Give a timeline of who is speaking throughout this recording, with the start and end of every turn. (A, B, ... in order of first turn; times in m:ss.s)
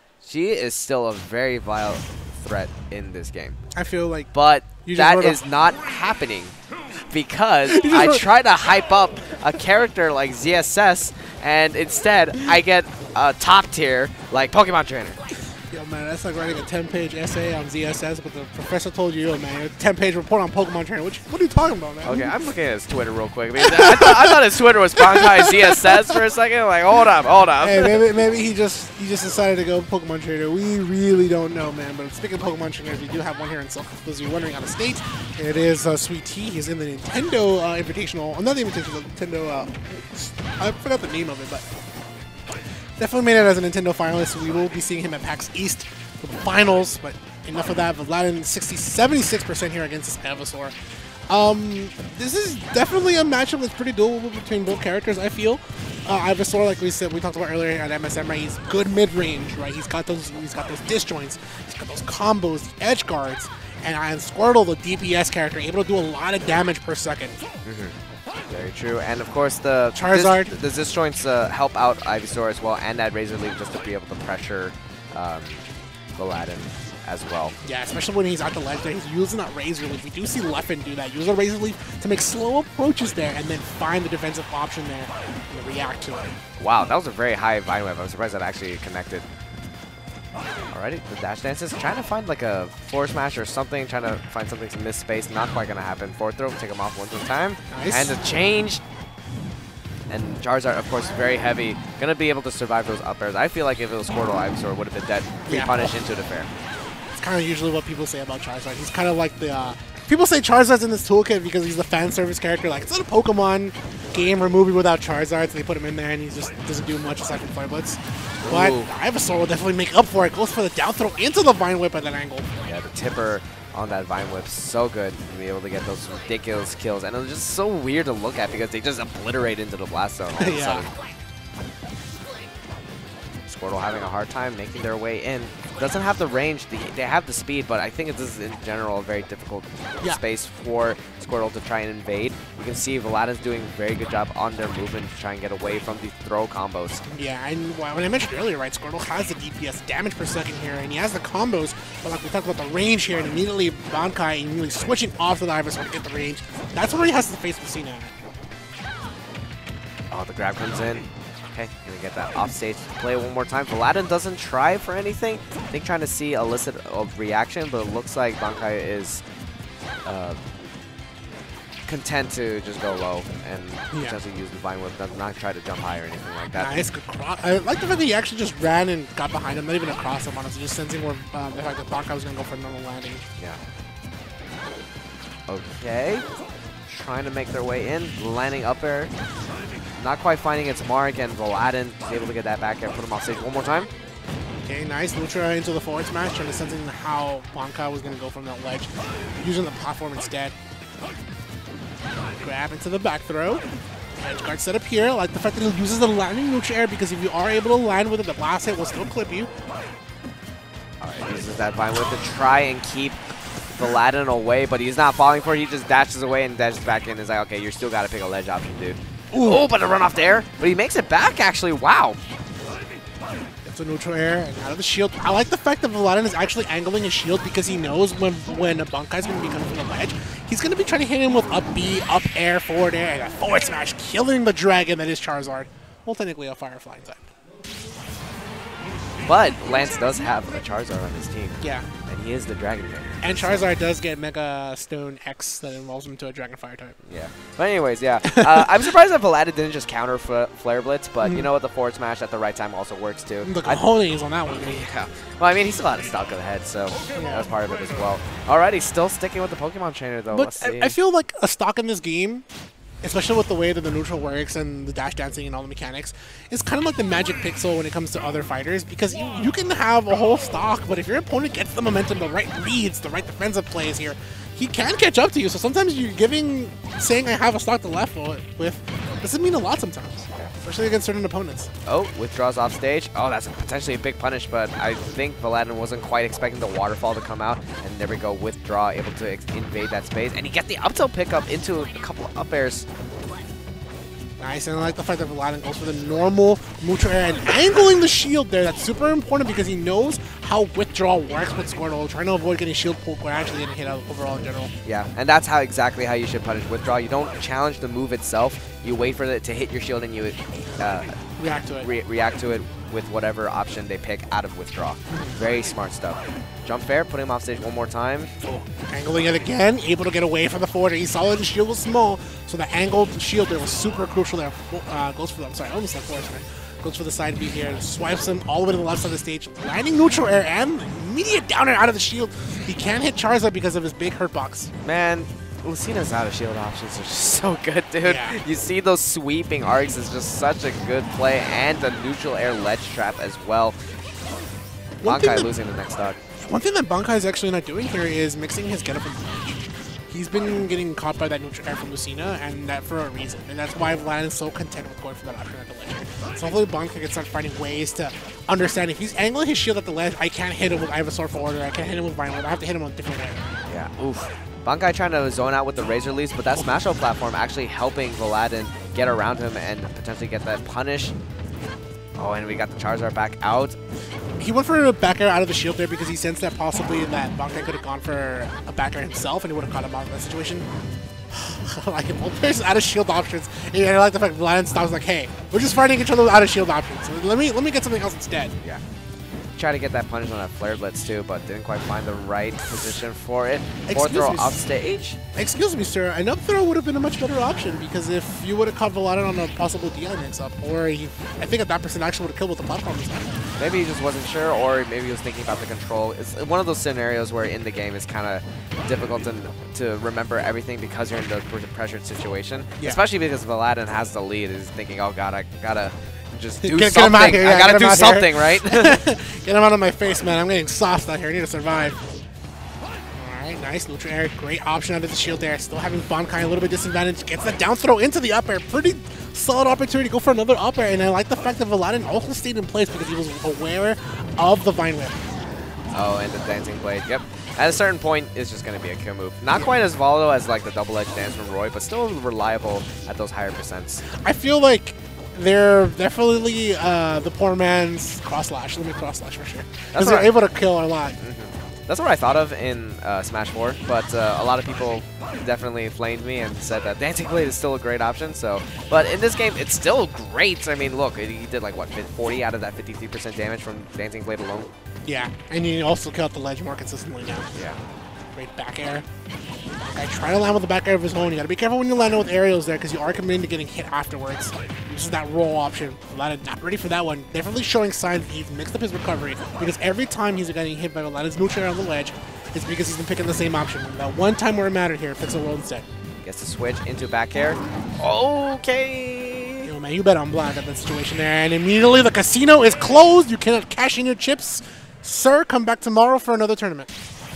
0:00.2-0:03.6 A
0:03.7-0:04.3 B
0:04.3-0:06.6 A
0:04.8-0:05.4 B
0:07.1-0:15.2 A
0:07.7-0:08.2 B
0:15.7-0:22.3 B
0:22.0-0:28.0 A
0:23.6-0:24.4 B
0:25.1-0:25.8 B
0:27.6-0:41.7 B
0:43.0-0:50.8 B
0:51.3-1:07.4 B
1:07.6-1:08.0 A
1:08.5-1:15.6 A
1:10.0-1:10.6 B
1:16.2-1:17.6 A
1:17.6-1:26.3 B
1:26.6-1:29.3 A
1:30.7-1:38.8 A
1:37.7-1:38.2 B
1:40.1-1:46.5 A
1:45.5-1:46.0 B
1:47.1-2:02.5 B
1:58.4-1:58.9 A
2:02.7-2:10.9 A
2:10.4-2:10.9 B
2:13.5-2:27.0 A
2:27.1-2:38.1 B
2:40.1-2:49.2 A
2:50.0-2:50.4 A
2:51.9-2:56.8 A
2:53.9-2:54.2 B
2:56.6-3:03.2 B
3:05.5-3:06.2 A
3:06.9-3:09.1 A
3:10.0-3:13.9 A
3:14.7-3:20.6 B
3:22.4-3:23.6 B
3:24.2-3:29.5 B
3:31.0-3:42.2 A
3:39.3-3:39.7 B
3:43.6-3:57.2 B
3:59.2-4:03.5 A
4:01.6-4:01.9 B
4:03.2-4:07.0 B
4:07.1-4:13.8 A
4:08.3-4:08.6 B
4:11.2-4:11.5 B
4:13.4-4:14.9 B
4:14.6-4:21.0 A
4:17.1-4:17.5 B
4:20.3-4:22.4 B
4:23.0-4:41.7 B
4:41.9-4:52.9 A
4:54.4-5:04.7 B
5:04.8-5:11.2 A
5:11.4-5:11.9 B
5:11.8-5:18.3 A
5:15.1-5:15.4 B
5:18.4-5:34.7 B
5:34.8-5:43.8 A
5:38.0-5:38.4 B
5:45.0-5:45.5 B
5:45.0-5:46.2 A
5:46.4-6:03.4 B
6:03.7-6:11.1 A
6:12.2-6:13.8 A
6:14.4-6:20.7 B
6:21.3-6:28.5 B
6:29.6-6:35.2 A
6:33.9-6:34.6 B
6:35.4-6:43.5 B
6:43.6-6:59.0 A
6:56.6-7:02.0 B
7:03.1-7:15.4 B
7:15.9-7:24.0 A
7:24.1-7:31.2 B
7:29.9-7:30.3 A
7:31.2-7:44.7 A
7:45.0-7:47.6 B
7:47.5-7:47.8 A
7:48.4-7:49.0 B
7:49.8-8:05.9 B
8:06.2-8:09.7 A
8:09.6-8:16.9 B